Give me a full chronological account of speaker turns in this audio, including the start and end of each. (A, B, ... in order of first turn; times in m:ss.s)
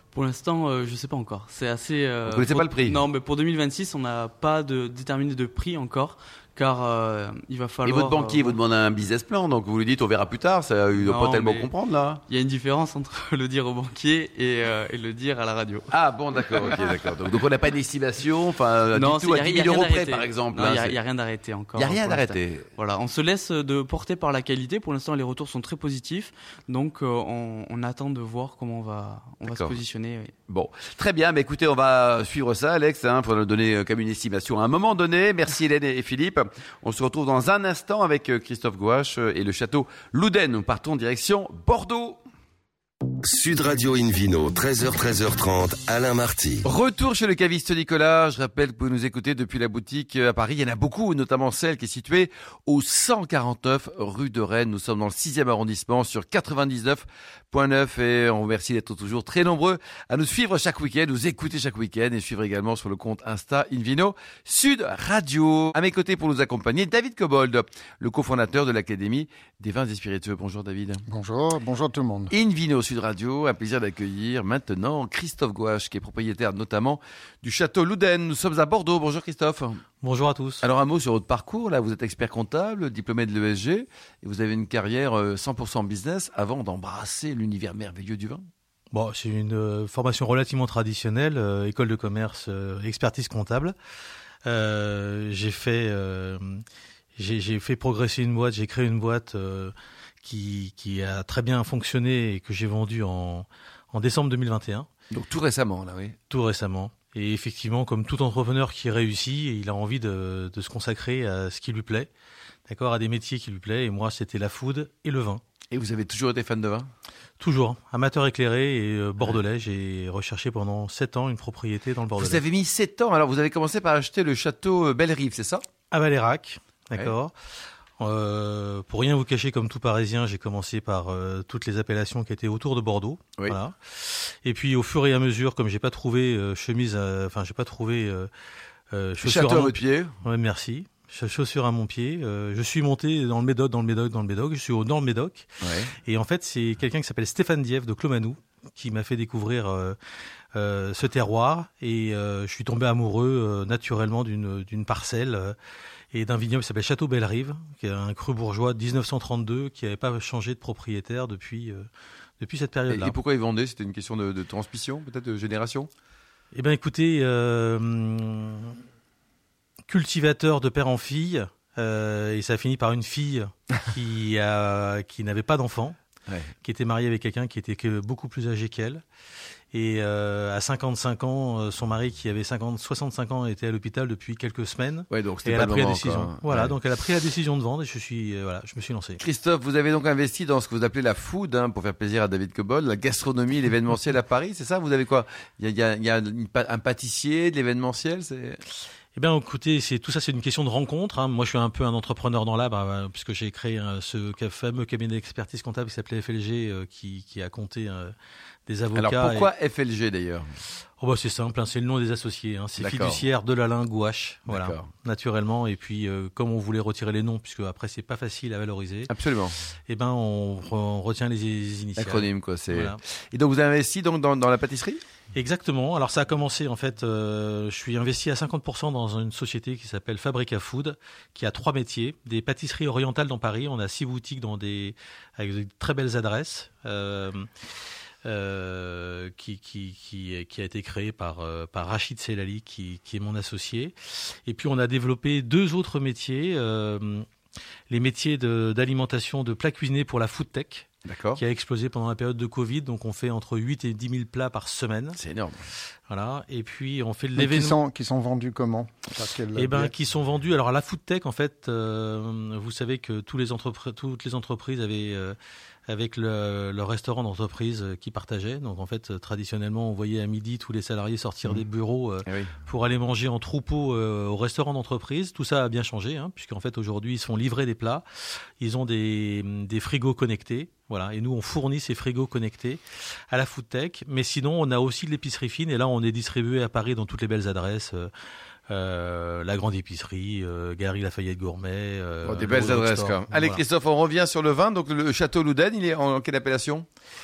0:00.1-0:08.6 A
0:02.3-0:03.0 B
0:07.8-0:12.2 B
0:11.0-0:11.7 A
0:12.3-0:16.9 A
0:15.9-0:21.0 B
0:18.9-0:30.3 A
0:21.8-0:22.7 B
0:29.5-0:29.8 B
0:30.5-0:42.2 B
0:43.2-0:46.6 C
0:46.6-1:11.0 B
1:11.1-1:12.3 D
1:12.3-1:19.8 B
1:20.0-1:20.6 E
1:20.6-1:28.4 B
1:28.9-1:33.8 E
1:34.5-1:36.6 E
1:37.2-1:44.9 E
1:45.1-1:46.2 B
1:46.3-1:52.1 E
1:52.7-1:55.4 E
1:55.7-1:56.9 B
1:57.4-2:02.4 E
2:02.1-2:05.6 B
2:05.9-2:07.3 E
2:08.0-2:18.3 E
2:18.9-2:25.5 E
2:19.2-2:20.1 B
2:25.6-2:25.9 B
2:26.1-2:30.0 E
2:30.6-2:35.6 E
2:36.1-2:41.8 E
2:42.4-2:43.2 E
2:42.9-2:45.9 B
2:46.5-2:48.8 E
2:49.9-2:56.0 E
2:56.6-2:59.0 E
2:59.7-3:09.2 E
3:05.1-3:06.8 B
3:09.2-3:18.6 B
3:19.2-3:28.1 E
3:28.7-3:29.5 E
3:28.9-3:30.5 B
3:31.0-3:39.1 E
3:32.8-3:33.3 B
3:34.5-3:34.9 B
3:39.1-3:39.5 B
3:39.9-3:43.0 E
3:42.0-3:45.0 B
3:45.4-3:57.5 E
3:58.3-4:07.2 E
4:07.9-4:10.9 E
4:11.0-4:11.4 B
4:11.4-4:15.2 E
4:15.2-4:15.6 B
4:16.1-4:17.8 E
4:17.4-4:20.0 D
4:19.6-4:25.4 E
4:25.9-4:38.0 E
4:32.2-4:32.6 B
4:38.6-4:42.8 E
4:43.3-4:48.1 E
4:48.7-4:53.6 E
4:52.2-4:56.9 B